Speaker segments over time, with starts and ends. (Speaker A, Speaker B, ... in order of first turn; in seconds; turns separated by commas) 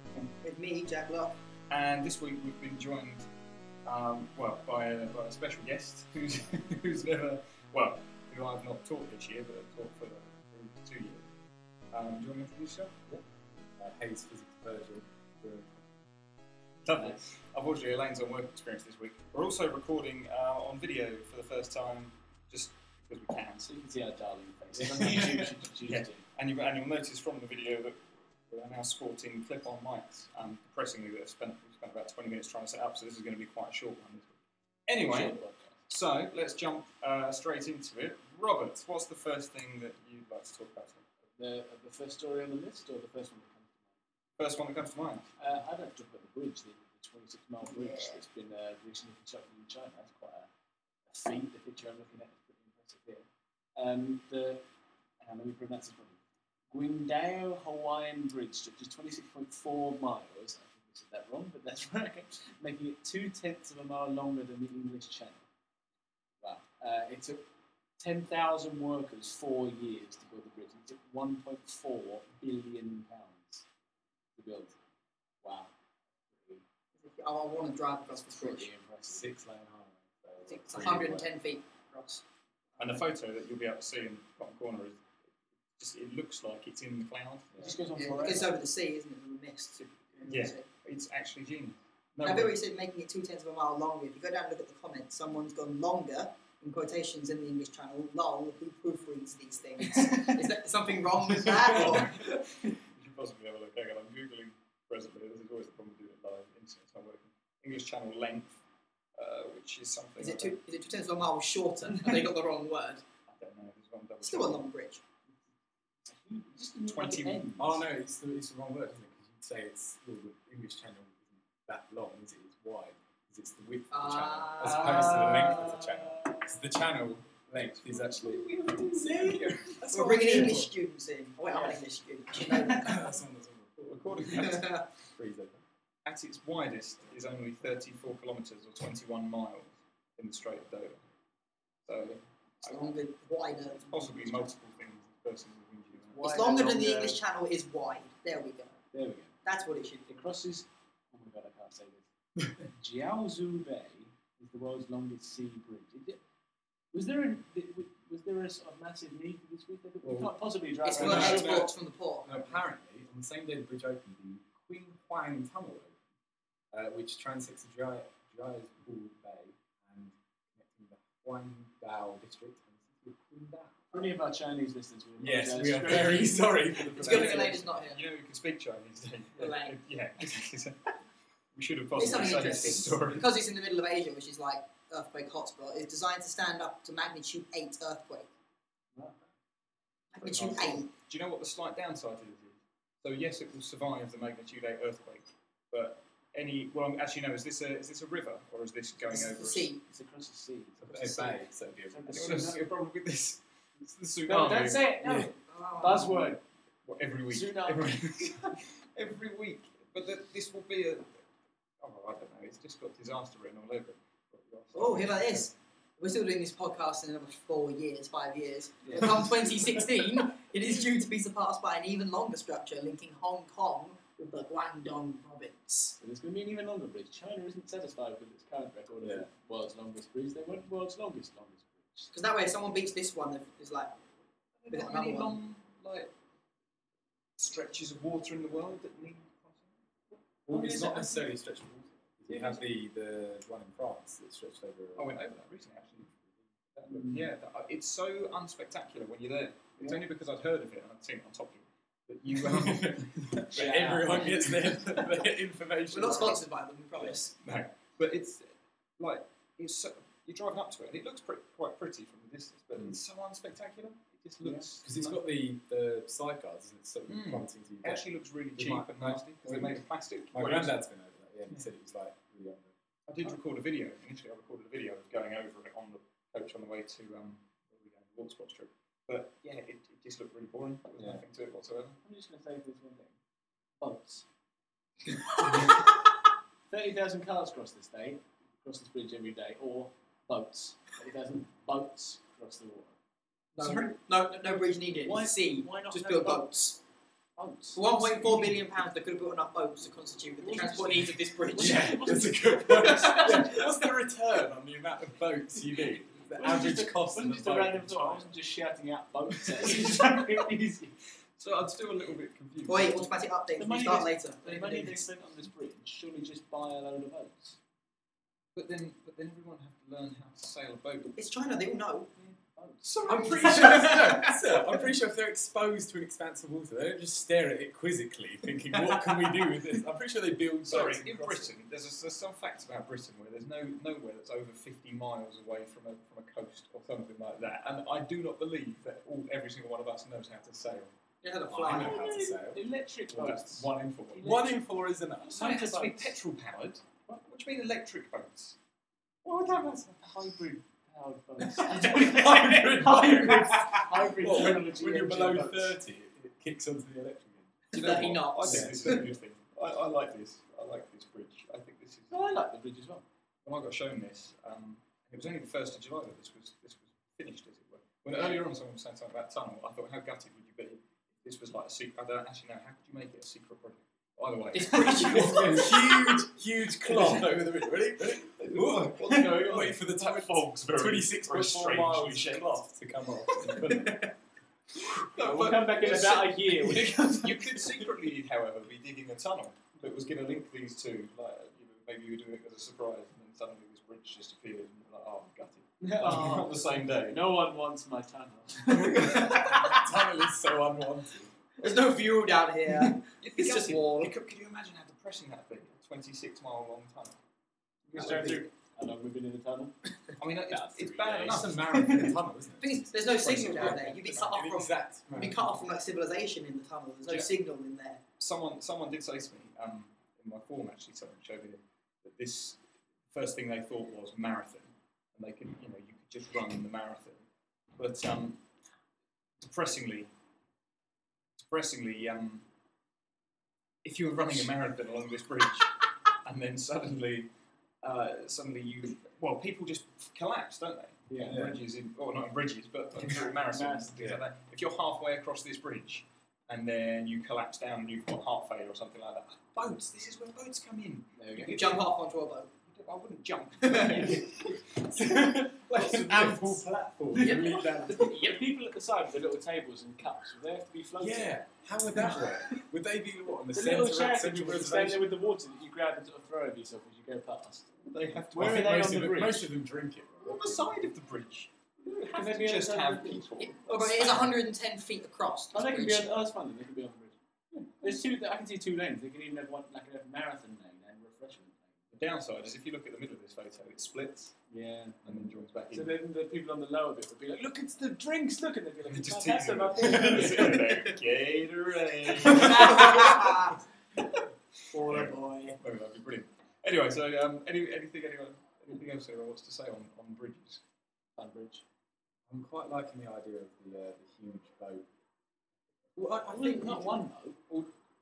Speaker A: 0.4-1.4, Speaker B: 1.7-3.2, Speaker B: 3.8-11.2, Speaker B: 11.9-12.9, Speaker C: 13.8-16.0, Speaker B: 16.8-23.7, Speaker D: 23.6-26.2, Speaker C: 24.8-25.4, Speaker B: 25.8-41.0, Speaker D: 35.0-35.7, Speaker D: 41.4-43.9, Speaker B: 44.4-45.3, Speaker D: 45.4-50.5, Speaker A: 47.7-48.2, Speaker D: 51.1-54.6, Speaker D: 55.2-56.2, Speaker D: 56.7-65.4, Speaker D: 66.4-67.4, Speaker D: 68.0-73.6, Speaker D: 74.4-74.8, Speaker D: 75.4-75.7, Speaker D: 76.3-76.6, Speaker A: 77.0-78.7, Speaker D: 78.3-79.3, Speaker C: 79.0-81.3, Speaker A: 80.5-82.2, Speaker A: 82.8-83.0, Speaker B: 82.8-85.0, Speaker B: 85.8-87.5, Speaker D: 87.6-88.6, Speaker A: 87.9-90.6, Speaker B: 90.2-92.5, Speaker A: 92.2-102.3, Speaker D: 99.9-100.4, Speaker B: 101.4-108.6, Speaker D: 101.7-101.9, Speaker B: 109.2-110.6, Speaker A: 110.2-113.0, Speaker B: 113.3-114.7, Speaker A: 114.2-115.0, Speaker D: 116.0-117.8, Speaker B: 116.9-117.4, Speaker C: 117.6-130.6, Speaker A: 123.9-125.7, Speaker D: 124.6-126.4, Speaker B: 127.9-130.6, Speaker D: 128.8-130.6, Speaker A: 129.8-133.1, Speaker C: 132.7-134.4, Speaker B: 133.8-134.8, Speaker A: 134.3-134.9, Speaker C: 135.1-135.6, Speaker B: 136.0-141.0, Speaker B: 141.8-143.0, Speaker A: 142.6-144.5, Speaker B: 143.7-146.2, Speaker D: 146.1-147.2, Speaker A: 146.2-148.8, Speaker D: 148.9-149.3, Speaker A: 149.4-150.2, Speaker D: 150.0-152.1, Speaker D: 152.7-156.2, Speaker D: 156.9-161.6, Speaker C: 160.0-160.3, Speaker A: 160.8-162.5, Speaker C: 160.9-166.0, Speaker C: 166.7-174.0, Speaker D: 173.9-177.2, Speaker C: 175.2-177.8, Speaker A: 176.9-178.0, Speaker B: 177.8-180.9, Speaker A: 179.3-179.7, Speaker B: 181.5-183.3, Speaker A: 181.9-188.3, Speaker A: 190.1-190.9, Speaker B: 190.2-199.7, Speaker A: 199.1-199.8, Speaker D: 199.8-202.6, Speaker C: 200.8-202.4, Speaker B: 202.1-204.8, Speaker D: 204.3-206.4, Speaker C: 205.0-205.3, Speaker A: 205.3-206.3, Speaker B: 206.8-211.1, Speaker D: 207.3-207.9, Speaker B: 211.8-215.5, Speaker A: 214.7-226.0, Speaker D: 218.8-219.3, Speaker D: 226.0-232.1, Speaker C: 229.0-229.3, Speaker A: 232.1-233.9, Speaker B: 234.6-236.1, Speaker A: 234.7-235.4, Speaker B: 237.4-239.7, Speaker C: 240.4-245.4, Speaker D: 240.5-241.3, Speaker D: 242.3-242.6, Speaker B: 244.9-246.2, Speaker B: 246.7-254.2, Speaker C: 252.5-252.9, Speaker C: 253.5-256.4, Speaker D: 253.5-254.5, Speaker A: 255.9-257.3, Speaker B: 257.0-265.2, Speaker D: 264.4-264.7, Speaker C: 264.8-268.0, Speaker B: 267.1-270.8, Speaker C: 268.6-269.8, Speaker C: 270.3-272.7, Speaker B: 273.1-282.0, Speaker C: 281.0-281.2, Speaker D: 282.0-283.2, Speaker D: 283.8-284.2, Speaker D: 285.4-285.8, Speaker D: 286.7-293.0, Speaker A: 293.6-296.8, Speaker B: 293.6-293.9, Speaker D: 294.5-296.5, Speaker D: 297.4-298.4, Speaker A: 297.7-302.0, Speaker D: 300.4-303.6, Speaker C: 301.5-308.3, Speaker A: 302.6-303.7, Speaker D: 306.4-310.9, Speaker B: 309.6-310.1, Speaker B: 311.4-313.1, Speaker A: 312.7-315.0, Speaker D: 313.6-317.6, Speaker B: 318.5-321.1, Speaker A: 321.1-322.1, Speaker D: 322.1-322.9, Speaker B: 322.8-324.2, Speaker C: 323.1-331.5, Speaker A: 323.1-324.2, Speaker B: 330.7-340.9, Speaker A: 341.2-342.0, Speaker C: 341.4-342.6, Speaker D: 341.7-344.6, Speaker B: 343.1-344.4, Speaker C: 344.2-345.4, Speaker D: 345.3-346.1, Speaker B: 345.3-348.6, Speaker D: 349.9-355.7, Speaker C: 351.7-357.6, Speaker A: 357.7-359.0, Speaker B: 357.7-362.2, Speaker C: 358.4-359.1, Speaker D: 362.1-363.0, Speaker B: 363.4-375.8, Speaker A: 374.5-375.9, Speaker C: 374.8-384.1, Speaker B: 376.9-377.3, Speaker B: 378.1-382.6, Speaker A: 383.6-383.9, Speaker B: 384.8-397.3, Speaker D: 385.1-387.8, Speaker D: 395.8-399.2, Speaker A: 398.9-399.8, Speaker C: 399.0-401.3, Speaker B: 399.0-399.4, Speaker A: 401.6-404.1, Speaker B: 402.7-407.1, Speaker B: 407.9-408.4, Speaker D: 407.9-411.3, Speaker A: 407.9-408.4, Speaker B: 410.2-411.7, Speaker C: 410.8-415.4, Speaker A: 411.5-418.0, Speaker B: 418.2-422.6, Speaker B: 423.1-427.2, Speaker B: 427.8-428.4, Speaker B: 429.4-430.1, Speaker B: 431.4-432.4, Speaker B: 433.8-437.3, Speaker B: 437.8-451.9, Speaker D: 441.1-441.4, Speaker C: 441.2-441.6, Speaker D: 443.0-444.0, Speaker D: 451.1-451.7, Speaker A: 451.4-452.5, Speaker B: 452.7-456.6, Speaker A: 453.6-454.2, Speaker D: 455.0-455.5, Speaker C: 455.6-458.3, Speaker D: 457.1-462.6, Speaker A: 457.2-457.6, Speaker C: 461.0-465.1, Speaker D: 463.5-467.7, Speaker B: 467.9-468.6, Speaker D: 468.3-469.5, Speaker C: 468.3-470.7, Speaker B: 470.2-474.4, Speaker D: 471.8-473.5, Speaker A: 473.6-476.1, Speaker D: 475.5-477.2, Speaker B: 477.5-478.0, Speaker D: 477.8-481.9, Speaker B: 481.9-484.3, Speaker D: 484.5-485.0, Speaker B: 485.0-485.9, Speaker D: 485.7-490.8, Speaker B: 488.9-494.2, Speaker D: 492.3-493.0, Speaker A: 492.3-493.6, Speaker A: 494.7-495.6, Speaker B: 494.8-500.6, Speaker D: 501.2-501.6, Speaker C: 502.3-504.8, Speaker C: 506.0-507.0, Speaker D: 506.0-507.4